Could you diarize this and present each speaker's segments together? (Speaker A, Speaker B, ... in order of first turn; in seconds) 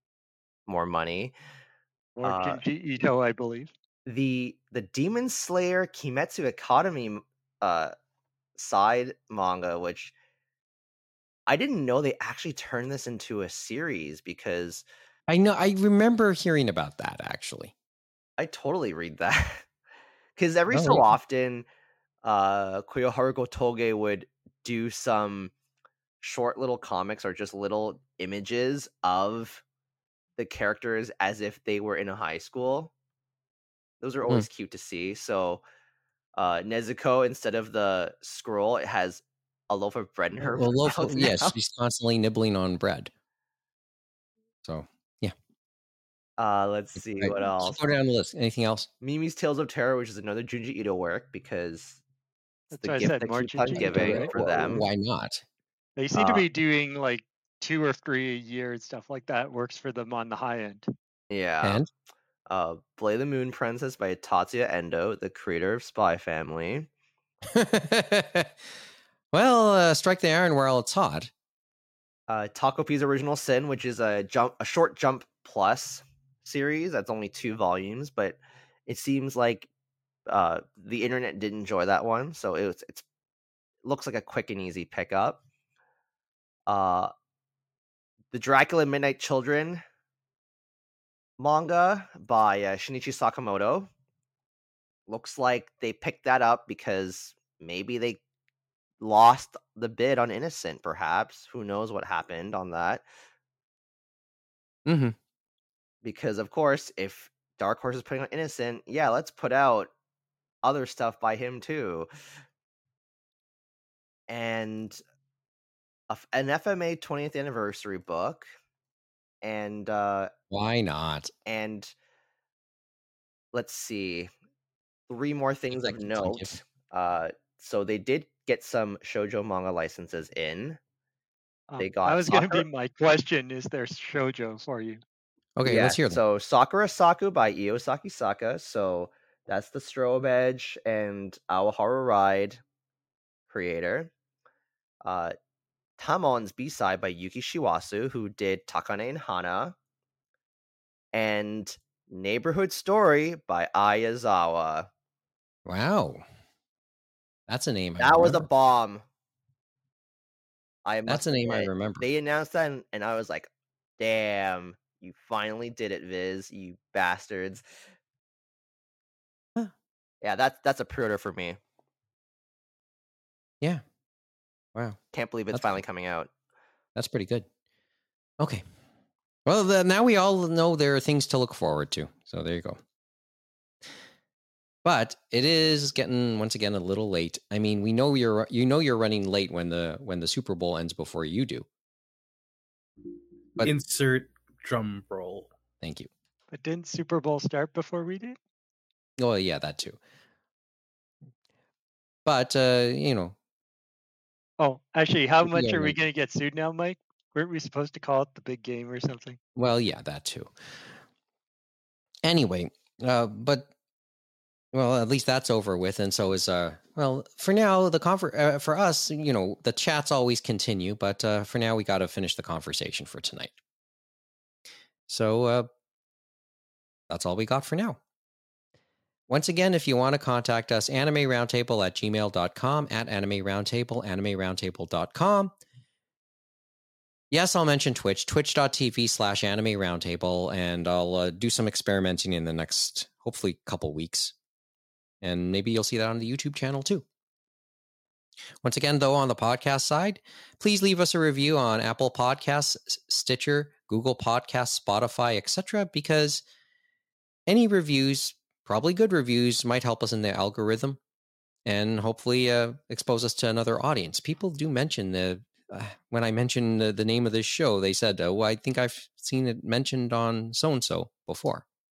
Speaker A: 0.7-1.3, 2.2-2.6, 4.0-7.9, 8.6-10.1, 11.5-14.8, 18.4-19.7, 20.4-21.6, 22.2-25.5, 26.2-29.6, 30.4-32.9, 34.0-35.6, 36.4-41.5, 46.4-47.8, 49.0-52.0, 52.7-54.9, 56.1-56.4, 61.3-61.9, 62.5-66.9, 72.3-79.7, 80.3-83.0, 83.8-85.4, 86.7-87.1, 88.3-89.8, 91.4-93.9, 95.1-98.2, 99.0-103.0, 106.0-109.9, 110.6-112.1, 114.3-115.0, 116.1-118.5, 119.4-120.3, 121.5-121.9, 123.5-124.3, 125.1-130.8, 131.8-132.6, 135.6-142.6, 143.5-144.1, 145.0-145.3, 146.0-149.8, 151.1-154.9, 158.0-159.0, 160.8-167.7, 170.2-171.6, 175.1-176.3
Speaker B: 2.2-3.7, 52.7-54.4, 56.0-60.9, 131.7-135.0, 196.5-198.4, 204.6-209.4
Speaker C: 15.3-17.7, 20.7-21.1, 40.4-43.1, 44.6-45.3, 47.0-48.9, 53.7-55.4, 61.6-61.9, 67.5-68.5, 69.3-71.3, 104.8-105.2, 120.5-121.3, 125.7-126.6, 135.6-136.2, 155.7-156.2, 157.5-158.5, 161.1-162.1, 176.9-177.5, 179.4-182.8, 184.8-191.7, 195.8-196.1, 199.2-200.0, 202.2-203.3, 205.4-206.0, 209.6-210.5, 212.2-213.7, 214.7-223.5, 225.1-225.7, 227.1-228.0, 229.3-235.5, 237.3-244.3, 245.2-247.0, 248.6-256.4, 257.5-261.0, 261.6-271.6
Speaker D: 193.6-195.5